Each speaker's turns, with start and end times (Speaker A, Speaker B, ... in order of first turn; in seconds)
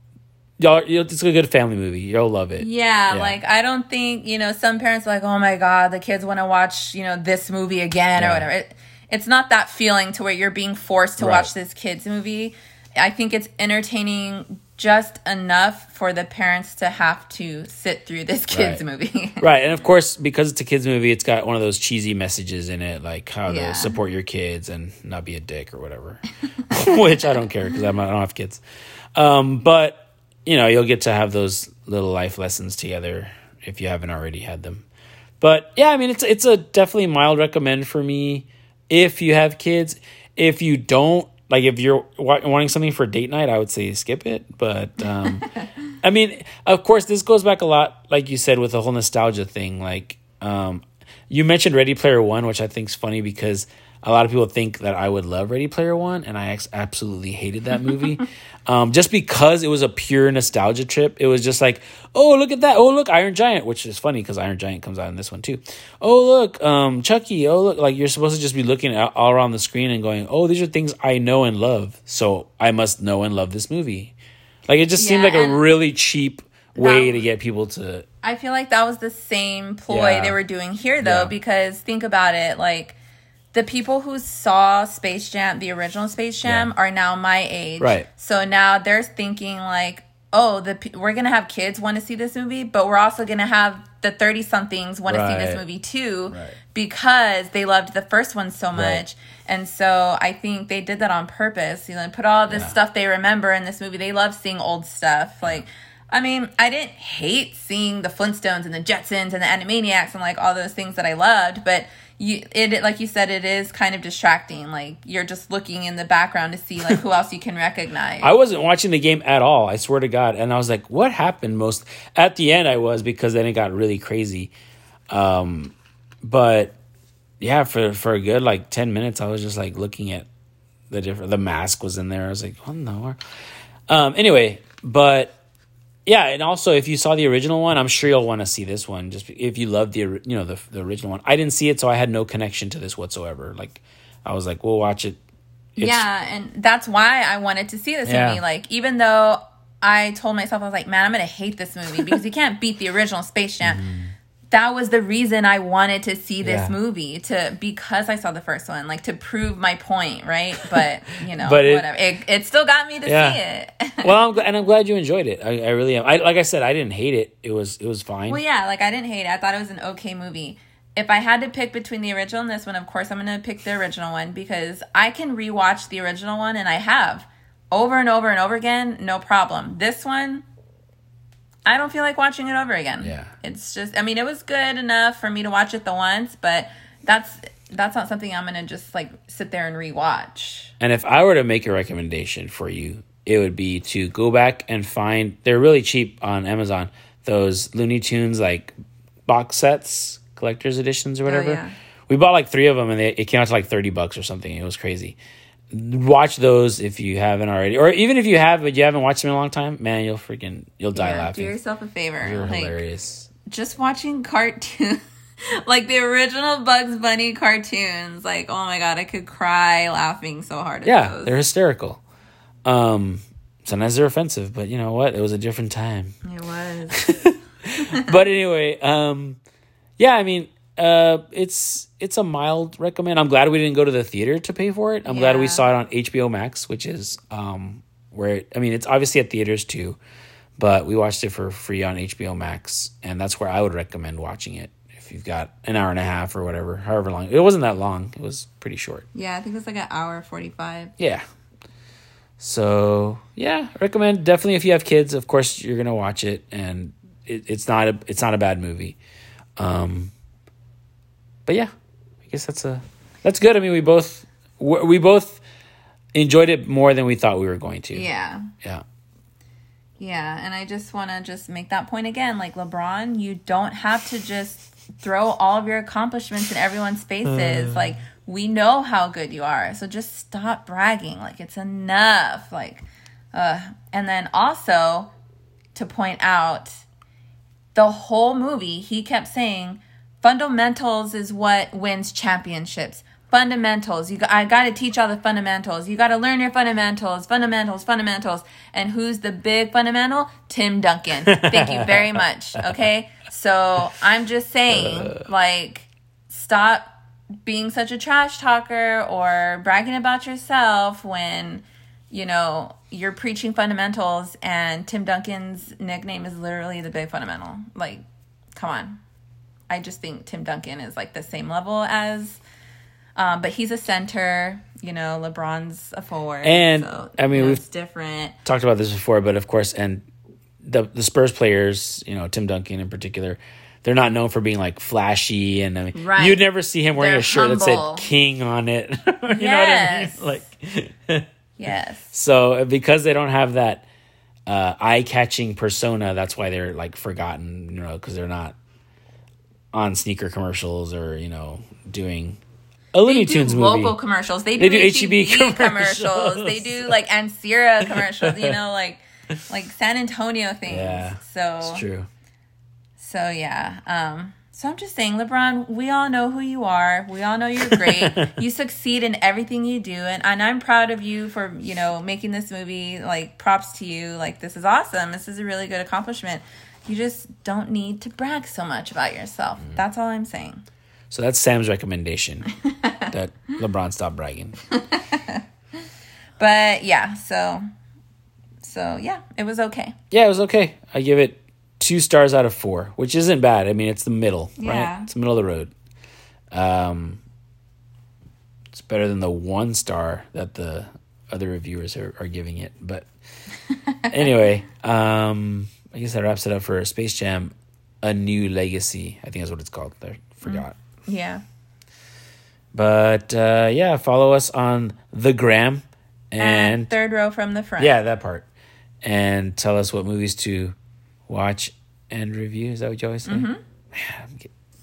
Speaker A: 0.6-3.4, 8.2-8.5, 11.2-11.5, 18.5-18.8, 19.4-28.6, 29.1-34.8, 35.4-45.5, 46.0-74.1, 74.7-78.0, 79.9-80.4, 81.0-81.3, 86.4-86.7, 87.8-88.1, 95.1-95.6, 96.3-96.6, 98.7-99.0, 102.5-102.7, 118.2-124.5, 125.1-126.7, 127.4-130.3, 130.9-133.2, 133.9-135.3, 136.1-145.2, 145.8-146.0, 148.1-148.4, 153.6-154.1, 156.4-156.7, 161.3-161.8, 163.1-163.4, 164.0-168.4, 183.0-183.3, 190.8-198.7, 199.3-205.2, 205.7-211.5, 212.2-213.3, 220.8-222.0, 222.6-226.1, 226.9-229.4, 230.0-240.0, 240.6-249.1, 252.4-259.0, 259.6-260.1, 261.4-261.7, 262.3-265.4, 266.1-268.1, 277.3-277.9, 301.3-302.1, 304.7-305.2, 326.4-327.6, 328.4-330.0, 330.6-341.2, 342.1-343.9, 344.4-348.6, 349.7-352.4, 352.9-353.9, 354.6-356.9, 357.9-358.6, 360.7-362.1, 367.6-368.4, 381.1-382.5, 383.1-384.6, 390.1-395.7, 396.5-397.2, 398.7-403.1, 404.1-410.8, 412.7-416.9, 417.8-418.4, 419.0-420.8, 421.3-424.5
Speaker B: 2.6-19.4, 23.5-23.9, 75.0-75.6, 76.8-77.2, 78.2-83.0, 83.5-118.3, 145.8-153.8, 154.5-164.1, 168.3-180.4, 181.7-190.7, 201.3-201.7, 210.9-212.8, 213.4-221.3, 226.2-227.0, 235.1-235.6, 249.1-250.9, 267.9-268.5, 270.0-285.1, 285.7-286.8, 287.7-306.9, 307.4-318.0, 318.5-319.0, 319.7-322.4, 323.1-328.4, 335.9-336.4, 336.9-338.1, 339.3-340.4, 341.6-342.1, 353.1-361.8, 363.0-380.6, 382.7-383.1, 384.7-385.4, 386.4-387.6, 388.6-389.9, 394.6-395.1, 403.7-404.1, 410.4-411.4, 416.4-417.9, 423.2-423.6